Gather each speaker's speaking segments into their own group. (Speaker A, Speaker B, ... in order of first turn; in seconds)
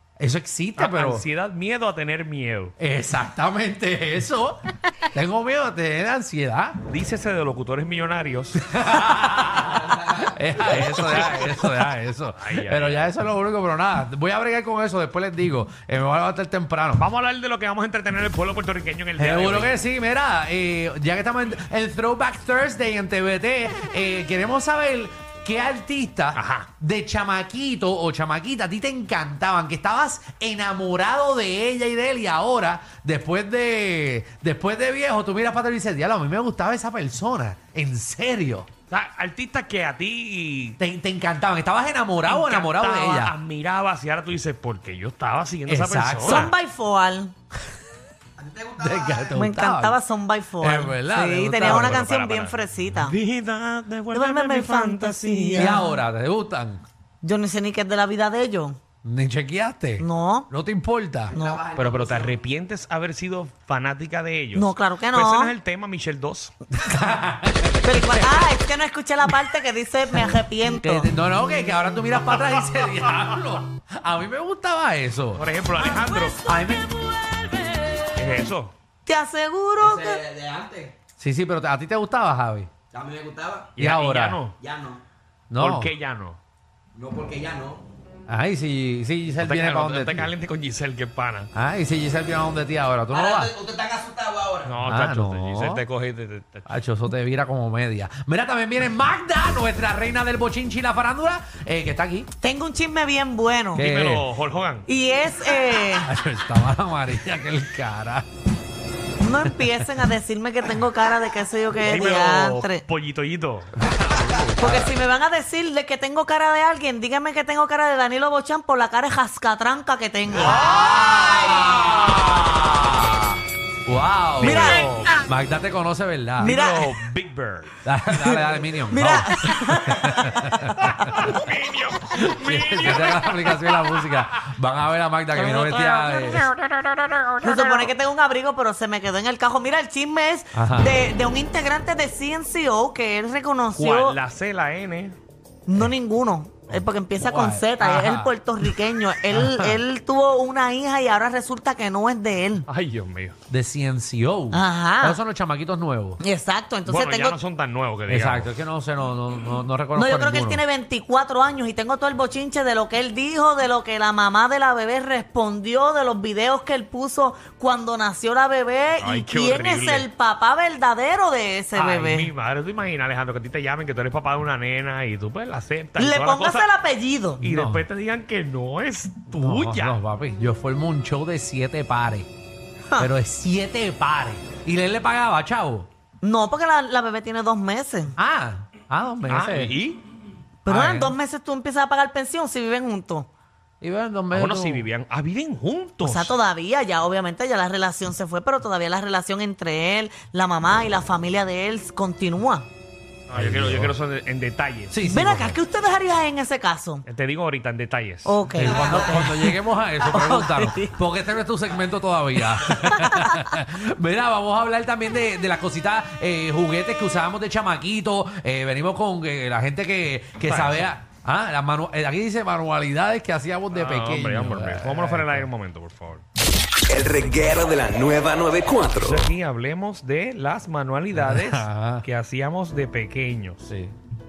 Speaker A: 0.2-1.3, 2.8-6.8, 8.6-17.0, 19.2-38.7, 40.8-43.4, 45.7-46.5, 48.8-50.0, 50.6-52.1, 55.5-56.8, 59.0-61.4, 66.7-68.3, 70.7-75.4, 76.4-77.5, 81.2-82.7, 83.8-84.5, 85.5-85.9, 88.3-90.3, 91.5-93.6, 94.9-95.8, 96.7-102.3, 103.8-104.3, 106.0-108.2, 114.6-114.9, 120.4-123.3, 123.9-126.6, 127.8-131.2, 132.2-136.5, 140.5-141.1, 147.2-148.7, 149.3-149.8, 153.5-156.2, 158.1-160.6, 177.4-177.8, 179.4-182.3, 183.0-185.9, 188.2-189.8, 190.7-191.2, 193.8-194.9, 203.3-203.9, 204.9-205.6, 208.5-225.5, 231.1-232.1, 233.7-233.9
Speaker B: 0.8-2.7, 6.9-8.6, 10.6-11.8, 12.4-13.1, 17.0-19.8, 26.3-26.7, 38.9-40.8, 42.2-46.5, 51.5-55.8, 61.7-66.5, 68.0-68.5, 75.3-76.5, 78.1-78.7, 83.8-84.6, 85.6-86.4, 89.4-91.5, 94.6-96.7, 103.8-104.9, 111.8-114.9, 120.3-121.7, 124.4-125.2, 126.4-127.8, 130.6-134.4, 135.3-137.4, 143.7-145.2, 152.7-153.4, 156.9-158.5, 169.0-170.1, 171.7-176.7, 177.4-180.0, 189.3-190.0, 194.3-196.3, 203.3-205.0, 207.1-208.4, 220.4-220.9, 223.7-226.2, 228.9-233.6
Speaker C: 46.2-47.3, 49.3-53.2, 54.1-55.9, 57.2-58.8, 60.0-60.5, 61.3-61.7, 64.5-65.5, 67.8-71.1, 79.1-80.2, 102.4-103.8, 104.9-106.1, 109.2-112.8, 114.6-120.5, 124.4-124.9, 126.4-126.9, 128.6-130.4, 137.4-144.2, 145.7-152.7, 154.5-155.2, 156.2-157.4, 159.9-172.3, 176.0-177.4, 186.2-188.2, 190.7-193.3, 196.0-202.7, 205.1-207.0, 208.2-211.0, 212.8-213.4
Speaker D: 48.4-49.2, 61.3-62.3, 79.8-80.9, 82.9-83.7, 84.6-85.0, 87.0-87.8, 93.1-94.8
Speaker E: 226.9-229.3